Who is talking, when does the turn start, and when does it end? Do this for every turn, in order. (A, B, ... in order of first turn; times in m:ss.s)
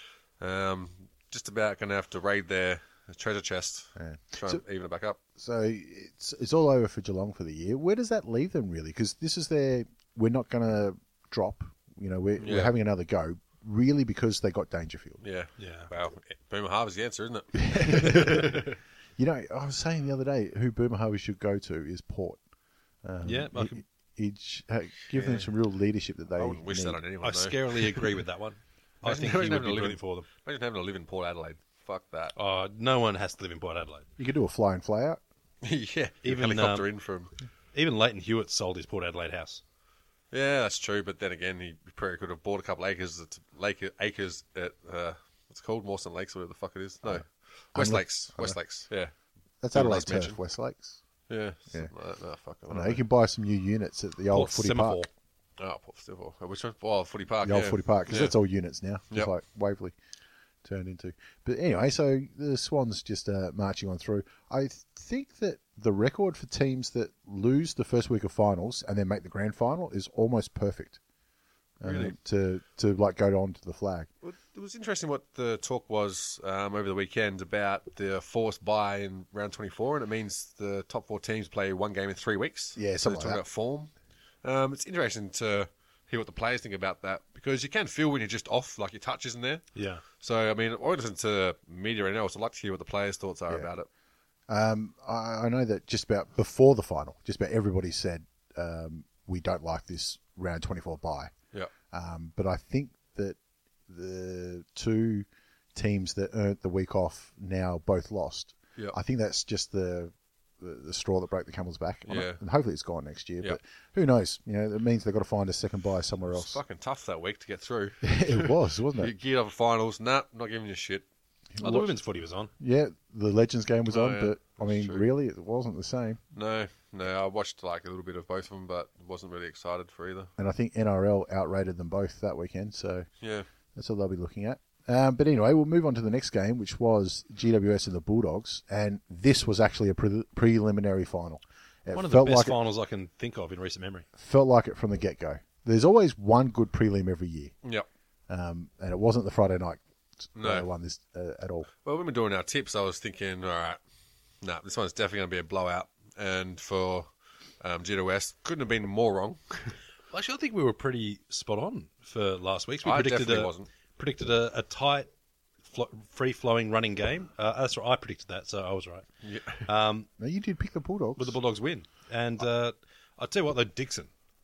0:00.4-0:05.2 A
0:04.0-0:04.6 B
0:05.4-0:15.2 B
0:12.4-0:12.7 A
0:15.2-0:18.8 A
0:15.6-0:15.9 C
0:17.6-0:18.6 B
0:19.2-0:22.4 B
0:23.0-0:27.0 B
0:23.2-0:23.8 C
0:25.1-0:25.5 A
0:26.4-0:28.0 A
0:27.2-0:30.2 C
0:29.0-0:32.3 A
0:32.3-0:34.0 C
0:34.2-0:35.2 B
0:35.6-0:37.3 A
0:36.2-0:36.9 C
0:37.7-0:39.6 C
0:40.3-0:49.1 A
0:47.7-0:48.6 B
0:49.6-0:51.0 B
0:49.7-0:50.4 A
0:51.3-0:53.0 A
0:52.7-0:55.0 B
0:54.3-0:55.1 C
0:55.6-0:58.3 A
0:57.4-0:59.9 B
1:00.6-1:11.0 B
1:11.8-1:14.1 B
1:11.8-1:12.1 A
1:14.2-1:23.9 A
1:22.8-1:23.4 B
1:24.4-1:29.6 A
1:29.8-1:30.0 C
1:30.2-1:33.9 A
1:34.5-1:41.3 B
1:41.9-1:43.4 B
1:43.9-1:56.6 B
1:52.1-1:52.4 A
1:56.3-2:01.0 A
1:58.0-1:59.1 B
2:01.5-2:01.9 B
2:01.6-2:02.5 C
2:02.6-2:06.2 B
2:03.9-2:05.0 A
2:06.3-2:10.3 A
2:10.4-2:13.1 B
2:13.2-2:13.4 A
2:13.8-2:22.6 B
2:21.9-2:24.1 C
2:24.2-2:27.5 B
2:28.3-2:31.7 B
2:30.4-2:30.6 A
2:31.8-2:33.8 A
2:34.4-2:37.1 A
2:37.6-2:39.7 A
2:40.1-2:45.1 C
2:42.8-2:43.7 A
2:45.6-2:49.0 C
2:49.2-2:49.6 A
2:49.6-2:50.1 C
2:50.2-2:51.4 B
2:51.2-2:54.1 C